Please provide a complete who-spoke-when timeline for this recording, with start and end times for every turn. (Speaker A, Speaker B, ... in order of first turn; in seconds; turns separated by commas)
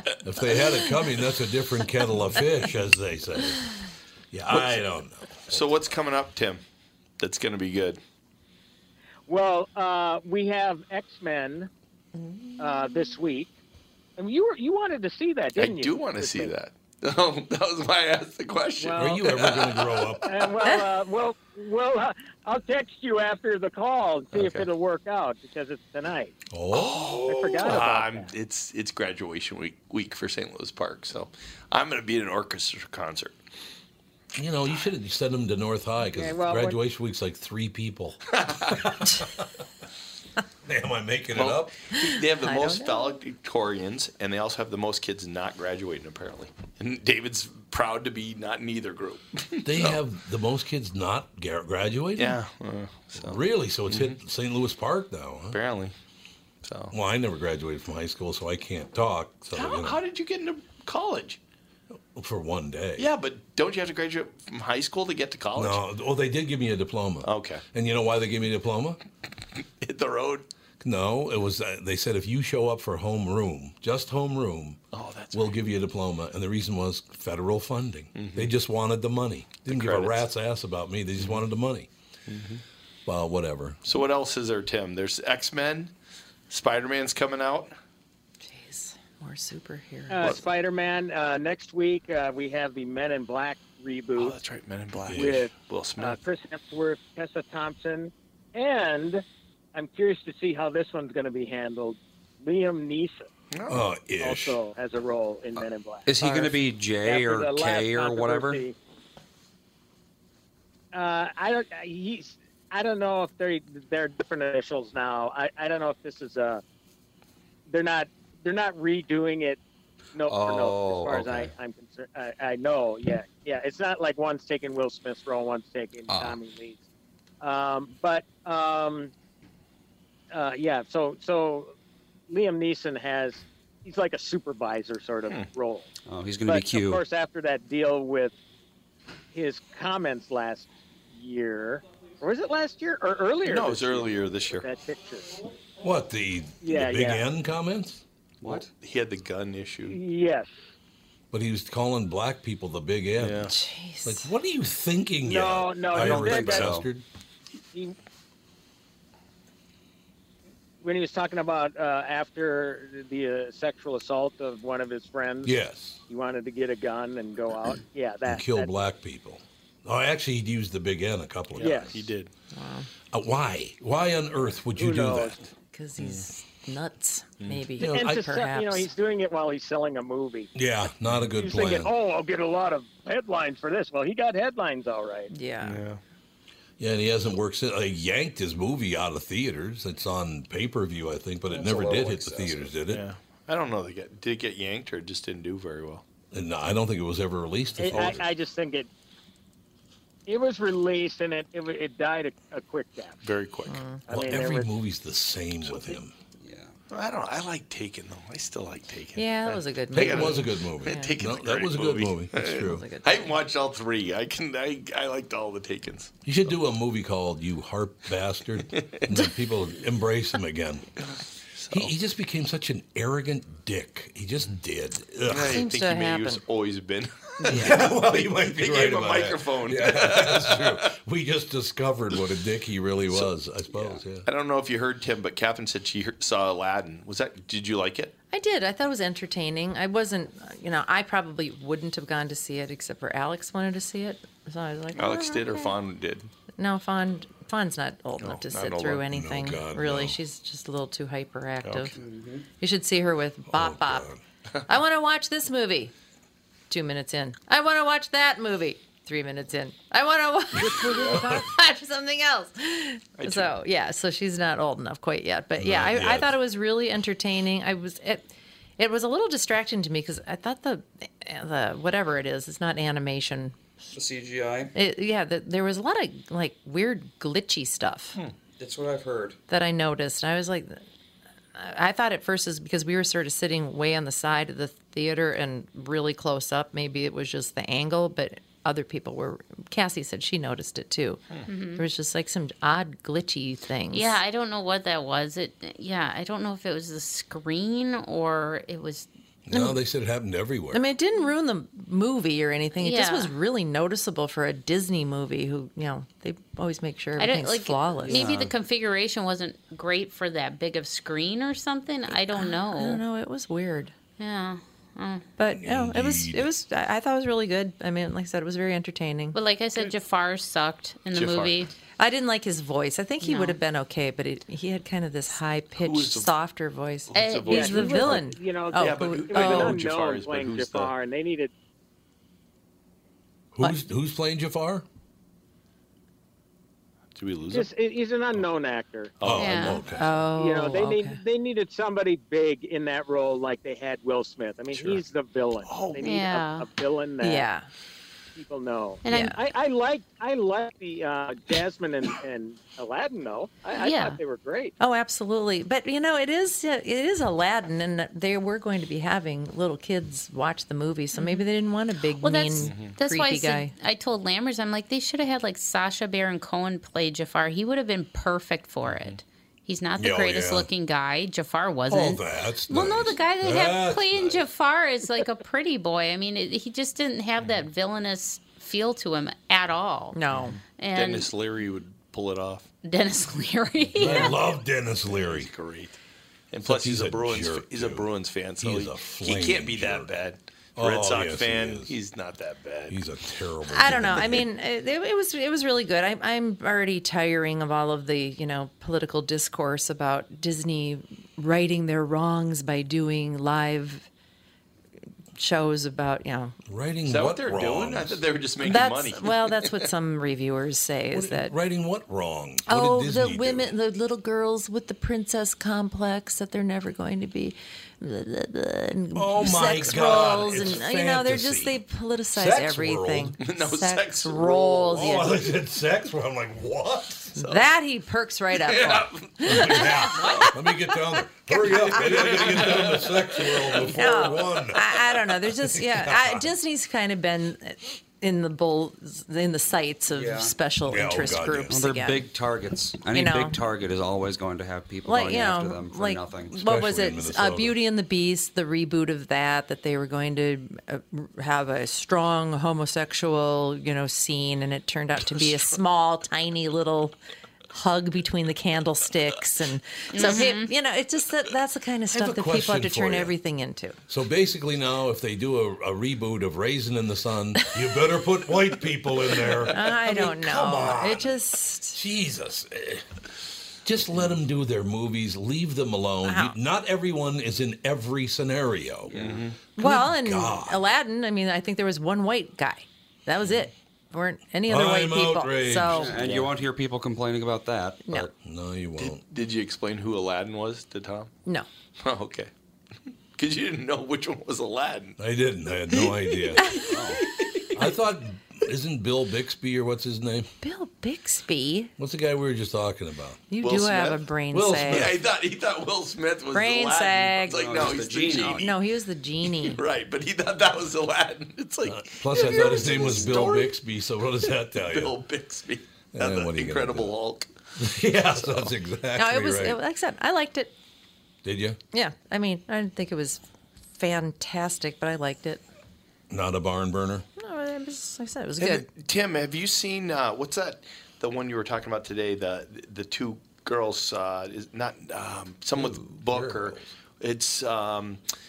Speaker A: 0.2-3.6, Speaker A: 4.3-5.9, Speaker B: 4.5-6.6, Speaker B: 7.2-8.0, Speaker C: 9.3-11.7, Speaker D: 12.3-12.9, Speaker C: 12.6-13.5, Speaker C: 14.2-16.5, Speaker B: 15.6-20.1, Speaker C: 18.8-19.5, Speaker A: 18.9-20.3, Speaker C: 20.2-26.3, Speaker B: 24.3-24.6, Speaker A: 26.5-27.3, Speaker B: 26.7-33.4, Speaker C: 27.2-28.3, Speaker A: 34.4-39.5, Speaker C: 36.0-36.8, Speaker B: 38.2-38.9, Speaker A: 40.6-41.9, Speaker B: 41.3-50.0, Speaker D: 42.0-43.2, Speaker A: 49.6-52.4, Speaker B: 52.1-54.2, Speaker A: 53.1-55.6, Speaker B: 55.5-55.9, Speaker B: 56.6-56.9, Speaker A: 56.9-60.0, Speaker B: 59.5-61.4, Speaker A: 62.1-63.1, Speaker B: 63.0-65.8, Speaker A: 65.5-69.0, Speaker B: 67.2-67.6, Speaker B: 69.8-70.5, Speaker A: 70.8-74.8, Speaker B: 74.9-75.6, Speaker A: 75.3-81.9, Speaker B: 78.1-78.5, Speaker B: 79.6-80.3, Speaker B: 81.2-81.4, Speaker B: 82.3-82.6, Speaker A: 83.0-83.8, Speaker B: 83.8-85.9, Speaker B: 86.5-87.7, Speaker D: 88.4-90.4, Speaker C: 90.1-94.4, Speaker B: 94.2-96.2, Speaker A: 95.0-95.4, Speaker C: 95.1-103.3, Speaker B: 103.5-103.9, Speaker A: 103.7-104.6, Speaker C: 104.2-108.8, Speaker E: 106.1-108.6, Speaker C: 110.9-116.6, Speaker C: 117.7-119.6, Speaker C: 120.1-126.8, Speaker E: 120.3-121.5, Speaker E: 126.1-126.4, Speaker C: 127.4-129.1, Speaker C: 130.3-131.7, Speaker C: 132.3-135.9, Speaker E: 136.1-137.0, Speaker C: 136.4-138.4, Speaker C: 139.3-145.5, Speaker B: 143.4-144.7, Speaker A: 145.8-148.0, Speaker C: 146.6-147.3, Speaker E: 148.4-148.7, Speaker B: 148.4-150.0, Speaker C: 149.9-150.5, Speaker A: 151.3-153.5, Speaker B: 153.2-153.5, Speaker D: 153.5-154.3, Speaker A: 154.0-157.0, Speaker C: 155.2-156.8, Speaker E: 155.9-156.9, Speaker C: 160.8-165.6, Speaker A: 165.4-166.0, Speaker C: 166.1-168.7, Speaker A: 168.2-172.1, Speaker B: 171.5-172.3, Speaker C: 171.6-171.9, Speaker D: 172.5-172.9, Speaker A: 173.1-175.4, Speaker C: 174.8-175.4, Speaker D: 175.7-178.9, Speaker B: 176.0-176.3, Speaker B: 177.4-177.7, Speaker A: 177.8-178.3, Speaker C: 177.8-180.5, Speaker A: 180.5-181.9, Speaker C: 181.3-185.3, Speaker D: 185.3-185.8, Speaker B: 185.6-186.0, Speaker A: 186.8-193.0, Speaker B: 191.5-196.0, Speaker A: 196.3-198.3, Speaker C: 197.8-198.9, Speaker B: 197.8-198.2, Speaker C: 200.3-203.2, Speaker B: 203.2-203.8, Speaker D: 203.7-204.1, Speaker C: 204.1-204.7, Speaker A: 204.1-206.1, Speaker B: 205.6-205.9, Speaker E: 206.4-206.7, Speaker B: 206.9-216.1, Speaker D: 209.1-211.1, Speaker A: 209.9-212.9, Speaker D: 212.6-213.4, Speaker A: 216.2-220.8, Speaker B: 218.7-219.1, Speaker B: 221.0-221.9, Speaker A: 221.7-225.6, Speaker B: 225.3-231.0, Speaker D: 225.3-226.4, Speaker D: 227.4-227.8, Speaker A: 227.5-234.3, Speaker B: 233.1-238.1, Speaker D: 238.3-245.8, Speaker B: 244.9-246.3, Speaker D: 246.6-251.9, Speaker B: 248.2-249.1, Speaker A: 249.1-250.2, Speaker B: 251.6-251.9, Speaker E: 251.9-252.5, Speaker D: 252.6-254.1, Speaker A: 253.5-254.2, Speaker D: 254.7-255.9, Speaker D: 256.7-273.6, Speaker A: 260.6-261.4, Speaker B: 263.2-263.6, Speaker A: 265.6-266.3, Speaker E: 273.9-274.7, Speaker D: 274.7-278.2, Speaker E: 278.2-279.4, Speaker D: 279.5-280.8, Speaker D: 281.5-294.2, Speaker F: 291.5-291.8, Speaker F: 293.9-299.1, Speaker A: 299.5-300.9, Speaker D: 299.5-299.8, Speaker D: 300.7-308.2, Speaker F: 302.8-303.3, Speaker F: 307.2-313.0, Speaker E: 308.1-308.5, Speaker D: 312.3-313.9, Speaker F: 314.2-315.3, Speaker D: 315.4-319.4, Speaker A: 315.5-316.5, Speaker F: 319.3-321.7, Speaker B: 321.1-321.7, Speaker D: 322.0-329.8, Speaker F: 323.2-323.6, Speaker B: 325.8-326.3, Speaker B: 327.1-328.2, Speaker F: 327.1-328.2, Speaker C: 327.5-331.5, Speaker B: 328.8-330.9, Speaker A: 333.5-334.8, Speaker B: 337.1-337.7, Speaker C: 337.5-339.1, Speaker B: 339.2-339.8, Speaker A: 339.2-340.1, Speaker F: 339.4-339.8, Speaker D: 339.9-341.2, Speaker C: 340.3-347.4, Speaker B: 344.7-345.0, Speaker B: 345.6-346.2, Speaker F: 346.0-346.7, Speaker D: 347.2-347.7, Speaker C: 348.3-354.7, Speaker F: 349.0-349.3, Speaker D: 349.1-349.3, Speaker F: 353.8-354.2, Speaker D: 354.8-363.7, Speaker F: 361.1-361.5, Speaker F: 362.2-380.2, Speaker B: 362.6-363.0, Speaker B: 368.8-369.2, Speaker A: 370.0-370.7, Speaker A: 371.9-374.4, Speaker D: 380.1-380.6, Speaker B: 380.3-382.7, Speaker F: 380.8-381.3, Speaker F: 382.8-384.4, Speaker A: 383.9-385.5, Speaker B: 384.0-384.5, Speaker B: 385.0-385.9, Speaker B: 386.5-393.0, Speaker A: 386.6-390.1, Speaker A: 390.8-391.9, Speaker A: 392.9-394.4, Speaker D: 393.6-404.1, Speaker D: 405.3-406.5, Speaker A: 406.7-408.2, Speaker B: 407.0-409.8, Speaker D: 408.6-411.5, Speaker A: 411.1-413.7, Speaker D: 412.6-425.5, Speaker A: 419.1-421.8, Speaker A: 422.3-423.4, Speaker B: 423.4-425.2, Speaker A: 424.9-427.3, Speaker B: 427.4-427.6, Speaker D: 427.4-432.5, Speaker B: 428.6-429.7, Speaker A: 429.4-436.5, Speaker B: 431.7-434.3, Speaker D: 433.8-442.3, Speaker E: 440.1-440.5, Speaker A: 440.8-441.8, Speaker E: 441.7-446.6, Speaker D: 443.1-443.6, Speaker D: 445.0-457.1, Speaker A: 446.5-447.8, Speaker D: 457.7-464.0, Speaker F: 460.1-460.7, Speaker A: 462.1-463.3, Speaker A: 464.1-471.3, Speaker D: 467.6-468.1, Speaker D: 469.4-472.0, Speaker A: 471.9-473.1, Speaker A: 473.8-479.1, Speaker D: 476.2-476.6, Speaker E: 479.1-479.4, Speaker B: 479.1-479.6, Speaker D: 479.8-486.3, Speaker A: 479.8-480.8, Speaker A: 484.7-486.2, Speaker E: 485.9-488.0, Speaker A: 488.1-489.2, Speaker B: 489.0-491.3, Speaker B: 492.0-492.5, Speaker B: 493.4-495.2, Speaker A: 495.2-496.7, Speaker B: 495.9-497.9, Speaker D: 496.6-496.9, Speaker E: 496.9-497.2, Speaker A: 497.7-500.5, Speaker D: 500.6-501.9, Speaker A: 502.0-503.4, Speaker D: 503.5-505.1, Speaker B: 503.6-504.2, Speaker A: 504.5-505.1, Speaker B: 504.8-508.7, Speaker D: 506.5-507.6, Speaker E: 507.5-508.7, Speaker D: 508.3-509.8, Speaker B: 509.6-513.8, Speaker A: 511.8-515.2, Speaker B: 514.4-517.5, Speaker A: 516.1-517.1, Speaker A: 517.8-519.8, Speaker B: 518.3-518.7, Speaker D: 519.1-520.7, Speaker A: 521.4-521.8, Speaker D: 521.9-523.4, Speaker D: 524.0-525.6, Speaker A: 526.3-527.3, Speaker D: 527.4-528.9, Speaker B: 528.6-538.2, Speaker A: 535.7-536.9